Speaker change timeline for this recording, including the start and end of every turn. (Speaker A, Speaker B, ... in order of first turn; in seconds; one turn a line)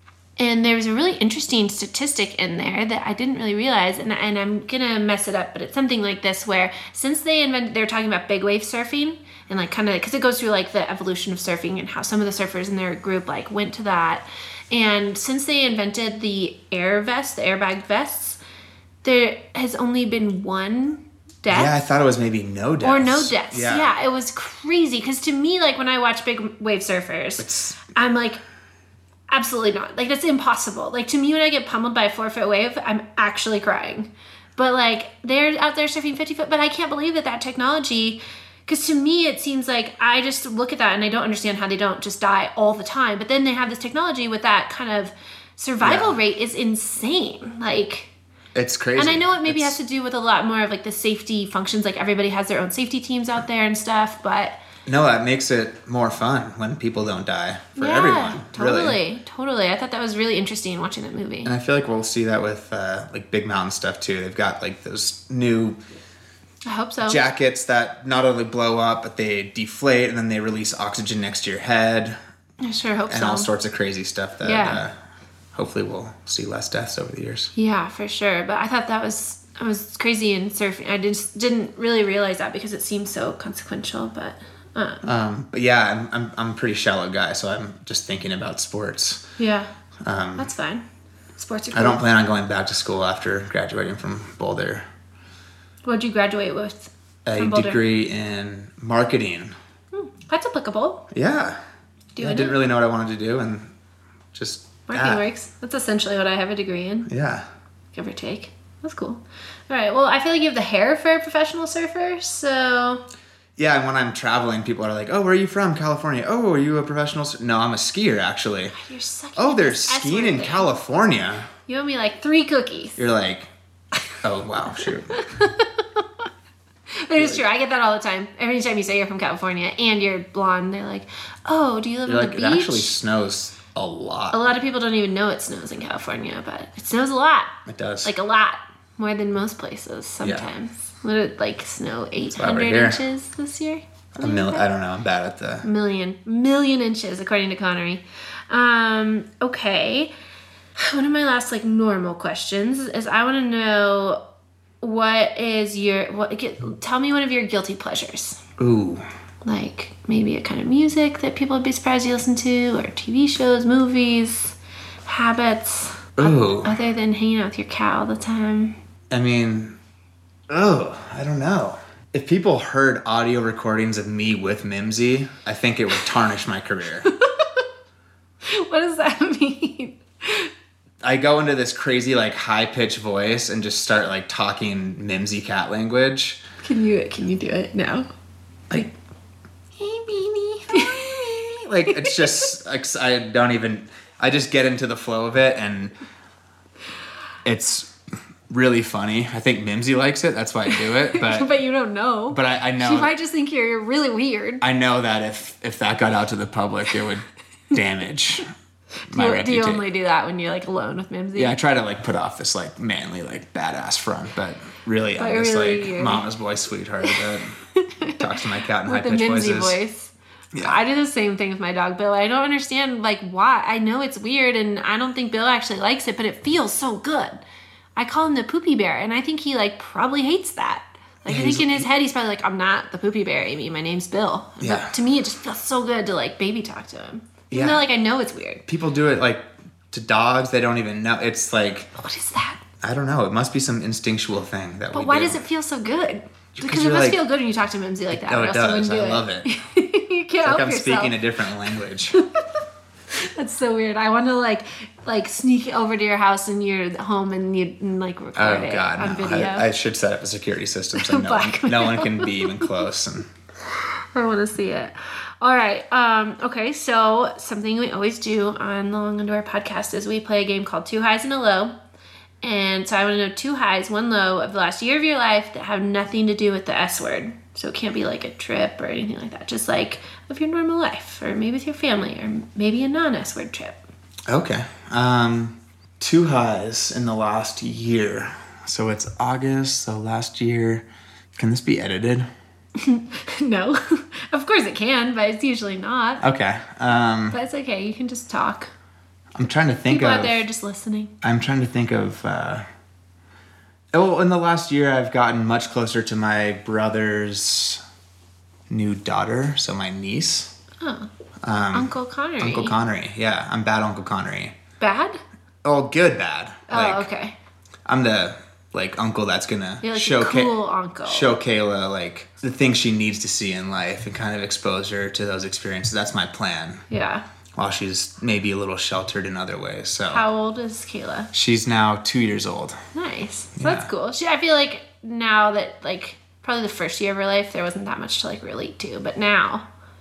Speaker A: 0.4-18.4
Speaker A: 19.0-21.7
Speaker B: 21.5-23.9
Speaker A: 22.8-28.4
Speaker B: 27.4-27.8
Speaker A: 29.3-48.1
Speaker B: 45.8-46.2
Speaker B: 48.5-49.8
Speaker A: 49.0-54.6
Speaker B: 54.9-59.0
Speaker A: 57.8-61.5
Speaker B: 61.4-65.8
Speaker A: 66.6-67.2
Speaker B: 67.0-72.2
Speaker A: 72.6-73.5
Speaker B: 73.1-75.0
Speaker A: 74.4-74.8
Speaker B: 75.5-77.5
Speaker A: 77.5-85.0
Speaker B: 85.0-89.3
Speaker A: 89.4-89.7
Speaker B: 90.0-90.5
Speaker A: 90.4-90.8
Speaker A: 91.3-92.0
Speaker B: 91.7-94.8
Speaker A: 95.8-97.8
Speaker B: 97.2-99.5
Speaker A: 99.9-101.0
Speaker B: 101.1-101.6
Speaker A: 102.2-102.5
Speaker B: 102.2-103.7
Speaker B: 104.3-105.2
Speaker A: 104.9-107.1
Speaker B: 107.1-107.5
Speaker A: 107.9-113.0
Speaker B: 113.6-118.8
Speaker A: 118.7-120.7
Speaker B: 119.3-121.5
Speaker A: 121.7-123.0
Speaker B: 123.0-123.5
Speaker B: 124.2-125.2
Speaker A: 125.1-126.0
Speaker A: 126.9-133.0
Speaker B: 127.2-127.4
Speaker B: 132.1-134.5
Speaker A: 134.3-144.6
Speaker B: 137.7-138.1
Speaker B: 140.2-140.5
Speaker B: 142.3-143.0
Speaker B: 144.2-145.7
Speaker A: 145.6-150.1
Speaker A: 150.8-154.2
Speaker A: 154.8-158.4
Speaker B: 158.6-159.1
Speaker A: 159.4-168.8
Speaker B: 166.2-166.8
Speaker B: 169.1-169.8
Speaker B: 170.5-177.1
Speaker A: 177.1-177.6
Speaker A: 178.4-180.5
Speaker B: 181.0-186.4
Speaker A: 186.6-188.1
Speaker A: 189.8-192.5
Speaker B: 190.8-195.9
Speaker B: 197.4-197.9
Speaker B: 198.5-201.5
Speaker A: 200.7-204.6
Speaker B: 202.3-203.1
Speaker B: 204.6-208.5
Speaker A: 209.1-211.5
Speaker B: 209.1-209.8
Speaker B: 211.3-217.5
Speaker A: 215.2-216.2
Speaker A: 217.7-227.4
Speaker B: 218.1-219.8
Speaker A: 227.9-238.6
Speaker B: 231.2-231.9
Speaker B: 234.6-234.9
Speaker B: 237.5-237.8
Speaker B: 238.7-241.9
Speaker A: 241.9-242.6
Speaker B: 242.8-245.4
Speaker A: 244.9-251.2
Speaker B: 246.6-247.2
Speaker B: 248.1-249.5
Speaker B: 250.4-252.2
Speaker A: 253.1-259.7
Speaker B: 258.4-263.3
Speaker A: 260.9-262.7
Speaker A: 264.1-271.7
Speaker A: 272.4-283.8
Speaker B: 284.3-292.3
Speaker A: 292.8-296.2
Speaker B: 296.2-297.4
Speaker A: 297.3-298.7
Speaker B: 299.3-300.4
Speaker A: 299.9-301.1
Speaker B: 301.2-302.6
Speaker B: 303.9-307.8
Speaker B: 308.7-310.5
Speaker A: 310.8-311.1
Speaker B: 311.4-314.6
Speaker A: 311.7-312.8
Speaker A: 314.8-315.2
Speaker B: 315.6-317.1
Speaker A: 316.7-317.3
Speaker B: 317.9-320.5
Speaker A: 319.8-321.3
Speaker B: 321.1-326.8
Speaker A: 326.9-327.2
Speaker B: 327.5-330.2
Speaker A: 330.1-331.3
Speaker B: 331.3-332.8
Speaker A: 332.9-339.6
Speaker B: 333.6-333.9